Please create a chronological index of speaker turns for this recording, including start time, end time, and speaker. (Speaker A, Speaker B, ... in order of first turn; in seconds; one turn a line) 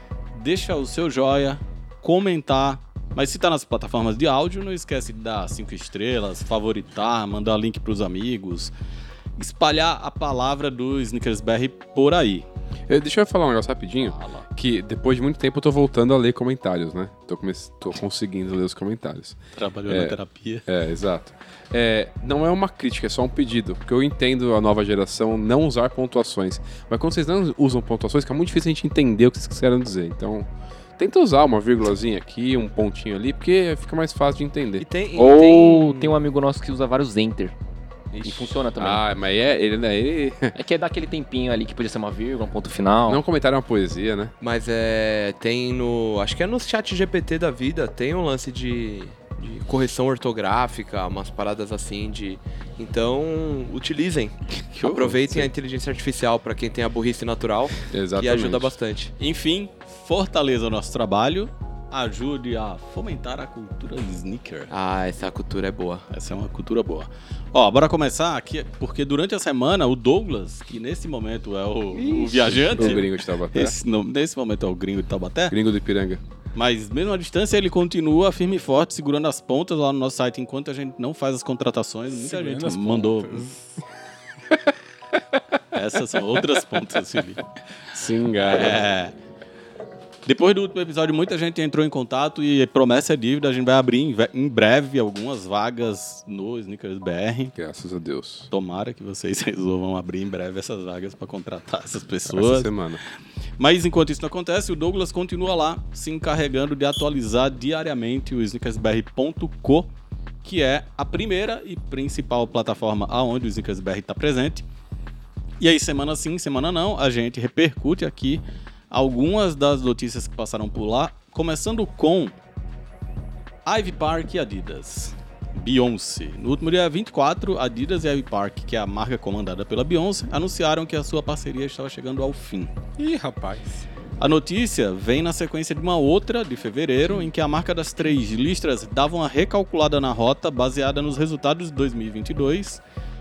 Speaker A: 0.3-8.7
Speaker A: 9.4-12.5
Speaker B: 12.9-19.4
Speaker A: 14.0-14.5
Speaker A: 19.6-20.6
Speaker B: 19.9-34.9
Speaker C: 34.8-36.2
Speaker D: 35.1-37.5
Speaker C: 38.1-38.5
Speaker D: 38.2-39.0
Speaker B: 38.8-40.5
Speaker D: 40.5-43.2
Speaker B: 43.1-44.3
Speaker C: 44.4-59.1
Speaker B: 54.8-55.5
Speaker B: 57.9-58.8
Speaker A: 59.2-64.7
Speaker C: 64.7-66.0
Speaker A: 66.1-75.6
Speaker C: 71.9-73.0
Speaker B: 72.8-73.8
Speaker B: 75.5-76.2
Speaker A: 76.5-83.6
Speaker E: 82.2-83.6
Speaker A: 85.7-87.4
Speaker B: 87.9-88.8
Speaker A: 88.4-89.1
Speaker A: 90.2-97.5
Speaker B: 97.6-98.5
Speaker A: 98.5-102.7
Speaker B: 102.3-103.0
Speaker A: 103.6-109.9
Speaker A: 110.4-114.7
Speaker A: 115.6-122.3
Speaker A: 123.7-132.7
Speaker E: 133.0-133.8
Speaker A: 134.2-142.8